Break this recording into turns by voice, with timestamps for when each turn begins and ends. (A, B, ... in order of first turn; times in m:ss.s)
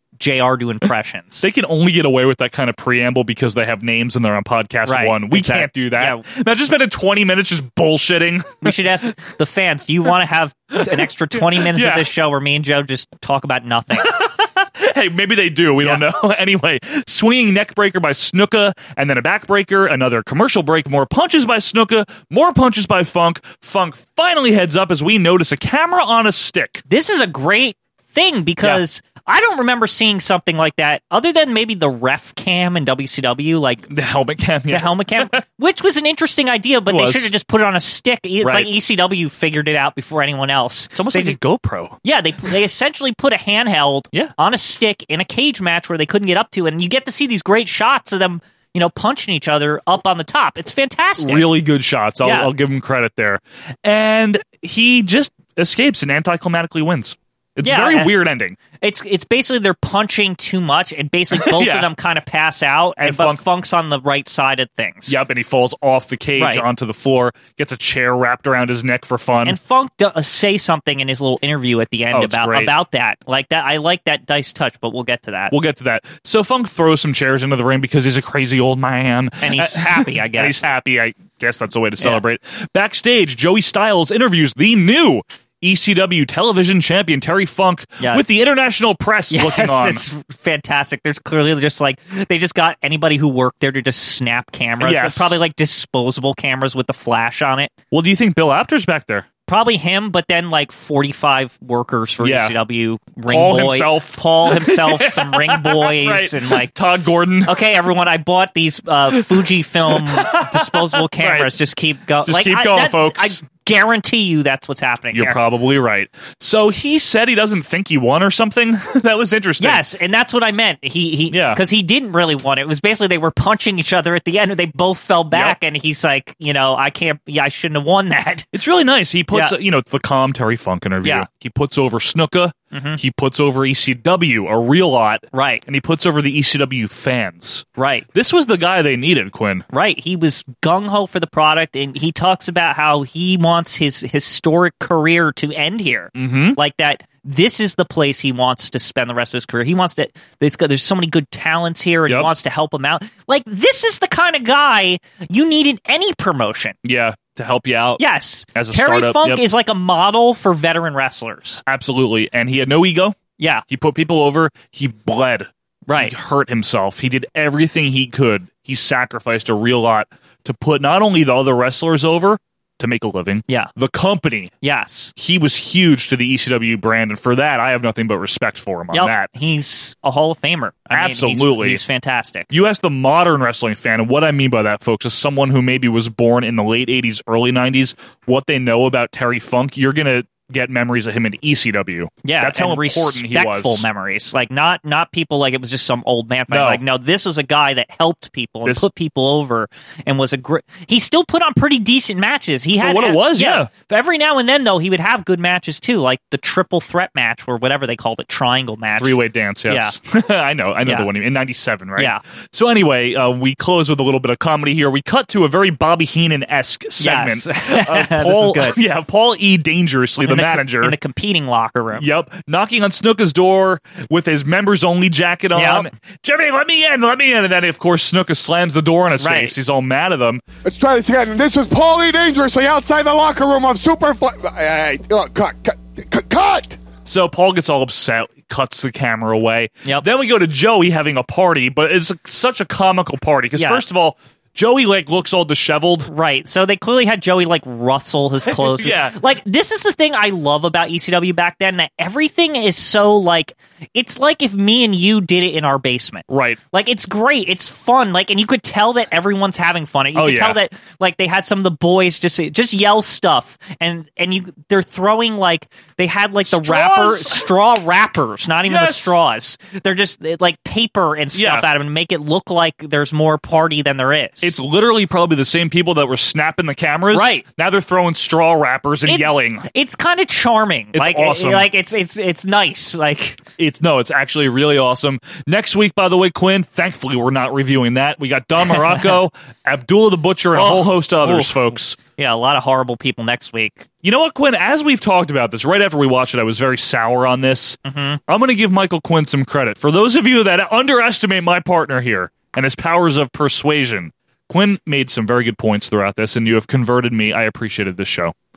0:00.2-0:01.4 A
0:01.4-0:08.7 B
0:04.9-0:06.2 A
0:08.6-0:14.1 A
0:11.0-0:12.1 B
0:14.0-0:26.8 B
0:26.9-0:33.9 A
0:33.9-0:35.4 B
0:34.7-0:41.4 A
0:36.9-0:37.3 B
0:38.4-0:38.7 B
0:40.9-0:42.0 B
0:42.0-0:51.5 A
0:51.2-0:58.6 B
0:52.2-0:52.5 A
0:57.6-0:58.1 A
0:58.8-1:05.2 A
1:01.3-1:01.9 B
1:03.0-1:03.4 B
1:05.1-1:09.6 B
1:06.4-1:06.6 A
1:09.4-1:15.5 A
1:12.1-1:12.7 B
1:15.5-1:30.0 B
1:19.4-1:20.6 A
1:29.3-1:37.7 A
1:34.8-1:35.3 B
1:37.9-1:39.3 B
1:39.5-1:46.7 A
1:42.2-1:42.5 B
1:43.3-1:47.5 B
1:47.4-1:55.4 A
1:49.9-1:51.5 B
1:52.2-1:53.4 B
1:55.1-1:59.8 B
1:59.6-2:08.5 A
2:01.3-2:01.6 B
2:05.3-2:05.6 B
2:08.5-2:19.6 B
2:12.7-2:13.0 A
2:15.3-2:15.6 A
2:17.8-2:18.1 A
2:19.7-2:36.8 A
2:26.1-2:26.6 B
2:36.8-2:38.0 B
2:38.0-2:41.6 A
2:38.5-2:39.4 B
2:41.7-2:43.2 B
2:43.4-2:43.6 A
2:43.7-2:54.5 B
2:45.9-2:46.1 A
2:54.6-2:55.1 A
2:55.2-2:59.3 B
2:58.9-3:02.5 A
3:00.9-3:01.8 B
3:02.5-3:13.8 B
3:12.2-3:29.2 A
3:16.5-3:16.8 B
3:22.8-3:23.7 B
3:29.0-3:40.9 B
3:37.0-3:38.8 A
3:40.2-3:42.0 A
3:42.0-3:50.4 B
3:45.6-3:45.9 A
3:49.2-3:49.5 A
3:50.6-3:56.8 C
3:57.0-4:06.1 B
4:03.6-4:03.8 A
4:06.1-4:34.5 A
4:08.5-4:09.2 B
4:16.3-4:16.6 B
4:20.1-4:20.6 B
4:26.4-4:27.5 B
4:28.6-4:29.1 B
4:31.3-4:31.7 B
4:34.4-4:39.6 B
4:37.1-4:37.4 A
4:39.0-4:43.4 A
4:40.9-4:41.7 B
4:43.6-4:52.0 B
4:48.7-4:49.1 A
4:50.5-4:51.6 A
4:52.2-4:53.8 A
4:54.0-5:08.3 B
4:57.8-4:58.2 A